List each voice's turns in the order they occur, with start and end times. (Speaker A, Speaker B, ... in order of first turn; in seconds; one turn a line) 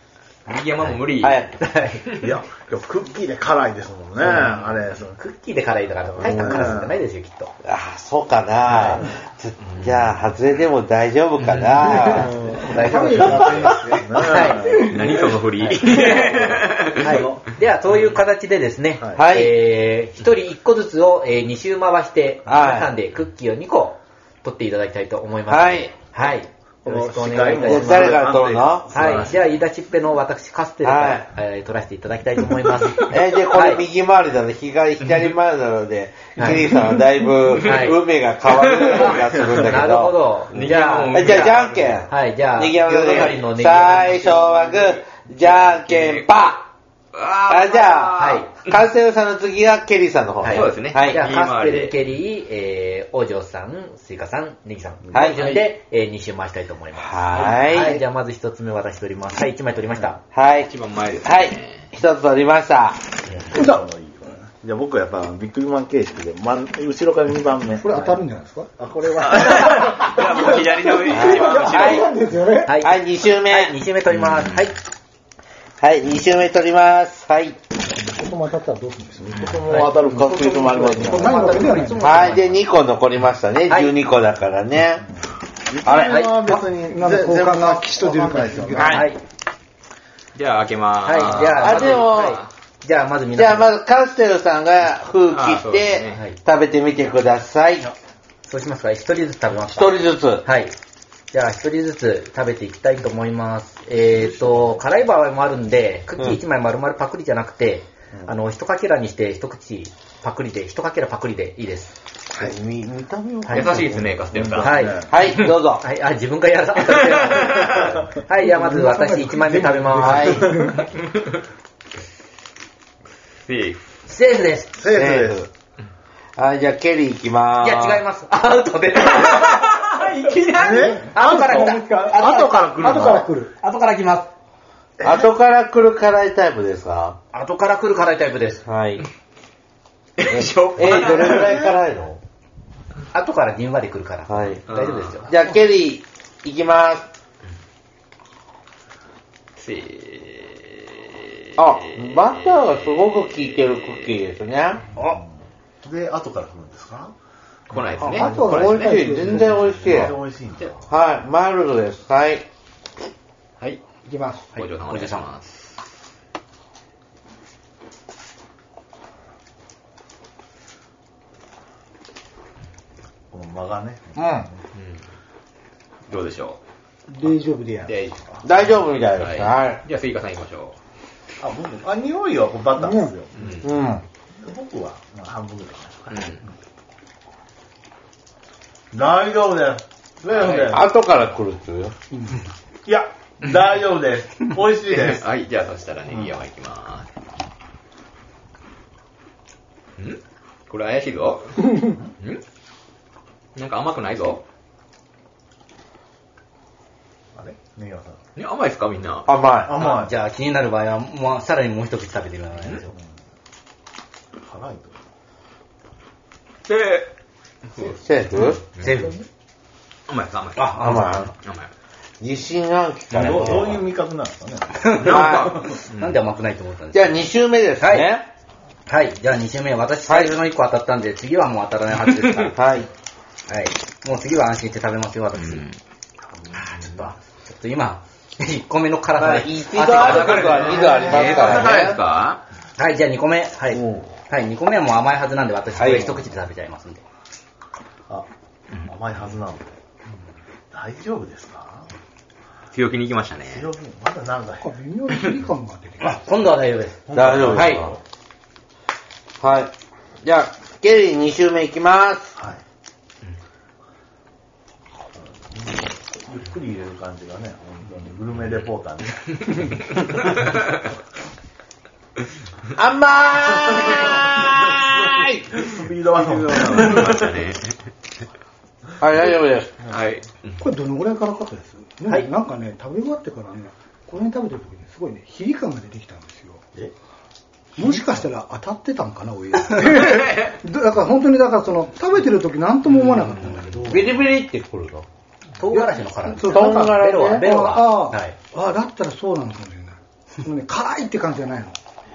Speaker A: 0.5-1.5
Speaker B: 1.0-1.6
Speaker C: 1.6-2.0
Speaker A: 2.0-2.3
Speaker D: 2.2-5.2
Speaker C: 4.2-4.6
Speaker C: 5.2-7.5
Speaker D: 6.1-7.0
Speaker B: 6.2-6.8
Speaker B: 7.6-12.3
Speaker A: 9.6-10.1
Speaker A: 11.4-11.8
Speaker E: 12.1-14.2
Speaker D: 12.1-15.1
Speaker C: 12.1-14.9
Speaker A: 14.3-17.2
Speaker E: 14.7-15.1
Speaker C: 15.6-28.3
Speaker D: 16.0-17.4
Speaker B: 19.1-19.5
Speaker B: 22.5-22.9
Speaker B: 25.5-25.9
Speaker D: 26.8-29.4
Speaker B: 27.6-28.9
Speaker C: 28.9-33.8
Speaker A: 29.0-29.3
Speaker B: 30.8-31.3
Speaker B: 33.0-46.6
Speaker C: 36.4-36.6
Speaker C: 37.6-38.0
Speaker A: 38.7-39.3
Speaker C: 39.5-41.5
Speaker A: 40.5-42.0
Speaker C: 42.0-45.0
Speaker A: 45.4-46.5
Speaker A: 47.1-48.5
Speaker B: 47.5-51.2
Speaker C: 48.1-48.5
Speaker C: 50.4-60.2
Speaker A: 50.5-51.9
Speaker B: 55.1-55.6
Speaker A: 55.2-55.6
Speaker B: 57.0-58.0
Speaker B: 60.3-60.7
Speaker A: 60.6-61.9
Speaker B: 61.2-63.0
Speaker D: 63.2-68.2
Speaker E: 63.5-63.8
Speaker E: 67.8-68.7
Speaker D: 68.8-70.4
Speaker A: 69.2-72.1
Speaker E: 69.7-72.7
Speaker B: 71.1-72.1
Speaker C: 72.7-74.8
Speaker B: 72.8-73.7
Speaker B: 75.8-77.6
Speaker E: 78.0-79.4
Speaker D: 79.2-81.3
Speaker C: 79.7-80.0
Speaker E: 80.0-82.2
Speaker B: 80.2-81.3
Speaker C: 81.1-82.6
Speaker B: 82.0-85.0
Speaker D: 85.7-88.9
Speaker B: 85.8-86.3
Speaker C: 86.0-86.3
Speaker E: 86.4-89.0
Speaker B: 88.8-89.1
Speaker C: 88.8-89.2
Speaker A: 90.3-92.5
Speaker C: 91.0-93.7
Speaker B: 91.4-92.4
Speaker B: 93.3-97.9
Speaker A: 95.3-96.2
Speaker C: 98.5-100.7
Speaker B: 99.5-100.5
Speaker C: 101.3-111.9
Speaker D: 104.1-104.8
Speaker B: 112.3-115.8
Speaker C: 113.5-113.8
Speaker A: 113.5-114.8
Speaker D: 114.3-115.1
Speaker C: 114.6-120.5
Speaker E: 118.4-120.8
Speaker B: 120.0-120.5
Speaker A: 123.5-123.8
Speaker C: 124.0-124.8
Speaker D: 124.8-125.5
Speaker B: 124.9-125.5
Speaker B: 126.3-128.0
Speaker C: 127.6-129.8
Speaker A: 129.3-130.9
Speaker D: 130.6-133.3
Speaker E: 130.7-133.5
Speaker C: 130.8-132.9
Speaker C: 133.6-134.3
Speaker D: 135.0-135.3
Speaker B: 135.0-137.2
Speaker C: 137.3-138.6
Speaker B: 138.7-139.0
Speaker A: 140.2-141.7
Speaker B: 140.3-142.2
Speaker C: 143.1-145.4
Speaker B: 144.3-144.6
Speaker A: 144.7-145.2
Speaker B: 145.2-147.1
Speaker A: 149.6-152.6
Speaker B: 151.6-154.8
Speaker D: 155.0-157.1
Speaker D: 157.7-158.6
Speaker A: 157.7-159.0
Speaker B: 158.0-160.2
Speaker E: 158.1-159.6
Speaker A: 159.6-160.7
Speaker D: 159.6-160.8
Speaker B: 160.9-162.4
Speaker E: 164.0-164.6
Speaker C: 164.5-165.3
Speaker A: 164.6-165.7
Speaker D: 173.3-174.6
Speaker B: 174.2-174.4
Speaker A: 174.7-175.0
Speaker A: 176.1-176.6
Speaker E: 177.1-177.9
Speaker A: 177.8-180.8
Speaker B: 178.4-179.8
Speaker D: 181.4-183.6
Speaker E: 182.8-183.1
Speaker A: 183.3-183.6
Speaker B: 183.6-184.0
Speaker D: 184.4-186.5
Speaker A: 186.1-186.4
Speaker D: 188.9-190.8
Speaker A: 190.3-190.8
Speaker B: 190.7-191.9
Speaker D: 192.8-195.2
Speaker A: 194.8-197.1
Speaker A: 200.0-202.4
Speaker A: 203.6-204.4
Speaker D: 207.3-208.2
Speaker A: 208.3-209.3
Speaker B: 209.2-209.7
Speaker D: 209.6-210.2
Speaker C: 209.8-212.9
Speaker D: 214.4-215.0
Speaker A: 216.7-217.1
Speaker A: 217.8-218.9
Speaker B: 217.8-218.6
Speaker C: 218.8-219.2
Speaker A: 220.1-221.7
Speaker B: 220.6-221.3
Speaker C: 220.6-221.2
Speaker B: 222.2-223.8
Speaker D: 223.1-225.8
Speaker A: 223.2-223.6
Speaker C: 224.8-227.2
Speaker B: 225.0-225.6
Speaker A: 225.0-226.2
Speaker B: 226.9-228.2
Speaker C: 227.8-228.1
Speaker C: 228.9-232.6
Speaker B: 230.1-230.3
Speaker B: 232.4-232.9
Speaker C: 233.5-235.7
Speaker A: 235.4-235.8
Speaker C: 236.5-241.0
Speaker B: 239.2-242.0
Speaker A: 239.8-242.4
Speaker D: 240.6-241.9
Speaker C: 242.8-247.0
Speaker B: 243.7-244.1
Speaker B: 245.7-246.2
Speaker D: 248.8-249.7
Speaker D: 250.7-251.9
Speaker A: 252.7-253.7
Speaker D: 253.4-254.7
Speaker E: 254.6-256.2
Speaker C: 256.0-257.0
Speaker D: 257.1-258.0
Speaker B: 257.1-257.9
Speaker B: 259.4-259.7
Speaker B: 260.2-262.3
Speaker D: 265.2-270.0
Speaker A: 270.2-270.6
Speaker B: 272.7-275.4
Speaker D: 273.9-277.5
Speaker A: 276.2-277.7
Speaker B: 279.0-279.7
Speaker A: 279.9-280.6
Speaker E: 280.6-286.6
Speaker E: 287.7-294.0
Speaker A: 289.9-290.5
Speaker B: 293.9-295.1
Speaker D: 293.9-294.2
Speaker C: 295.6-298.4
Speaker E: 295.7-301.8
Speaker B: 296.5-297.5